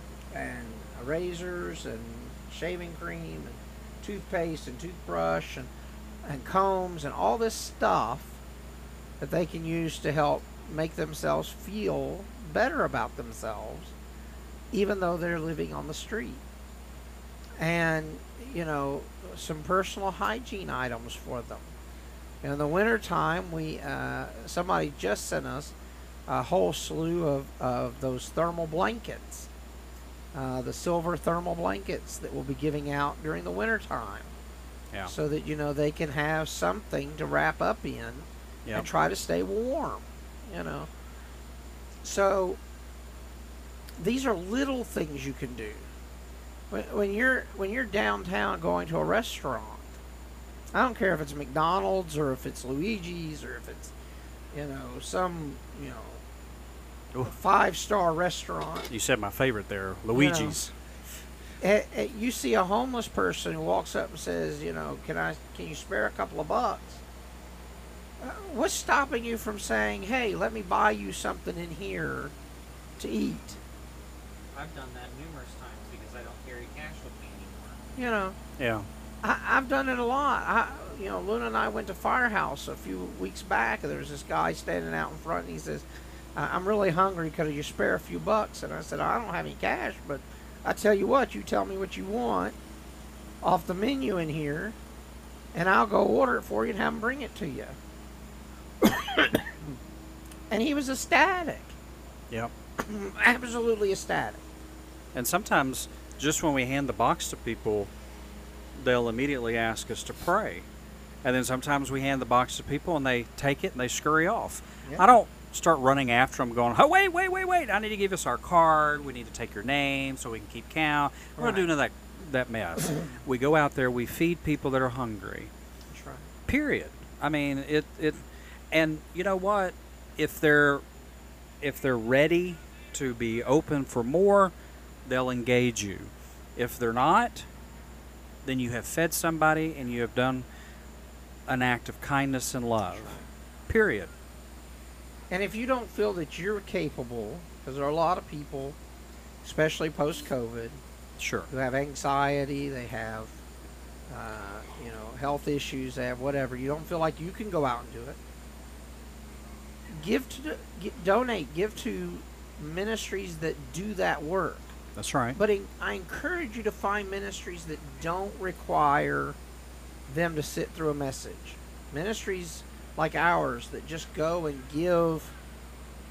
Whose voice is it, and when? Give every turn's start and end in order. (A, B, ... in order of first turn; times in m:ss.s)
0:00.3-0:05.7 A
0:06.2-0:08.4 A
0:09.2-0:13.9 A
0:14.7-0:16.4 A
0:17.6-0:21.7 A
0:22.4-0:25.7 A
0:26.3-0:29.5 A
0:30.3-0:34.3 A
0:35.0-0:40.9 A
0:42.0-0:42.6 A
0:44.0-0:45.9 A
0:46.7-0:49.9 A
0:50.7-0:53.9 A
0:54.5-0:56.2 A
0:57.2-0:58.9 A
0:58.9-1:00.7 B
1:00.1-1:00.6 A
1:01.6-1:07.0 A
1:08.2-1:12.3 A
1:13.0-1:13.6 A
1:14.5-1:17.8 C
1:18.0-1:18.4 A
1:18.6-1:18.9 B
1:19.2-1:32.6 A
1:33.4-1:34.8 A
1:35.5-1:37.8 A
1:38.8-1:39.7 A
1:40.5-1:41.8 A
1:42.8-1:44.4 A
1:45.1-1:47.9 B
1:48.8-1:50.7 B
1:51.2-2:05.5 B
2:01.4-2:01.6 A
2:05.9-2:06.3 A
2:06.5-2:10.8 B
2:11.6-2:14.5 B
2:15.0-2:17.5 B
2:18.4-2:20.5 B
2:21.5-2:23.2 B
2:23.0-2:23.2 A
2:23.7-2:24.1 B
2:25.3-2:28.8 A
2:29.4-2:30.8 A
2:31.2-2:31.5 B
2:31.5-2:33.4 A
2:34.1-2:38.2 A
2:39.9-2:44.7 A
2:44.9-2:45.4 B
2:45.4-2:49.4 A
2:50.1-2:55.4 A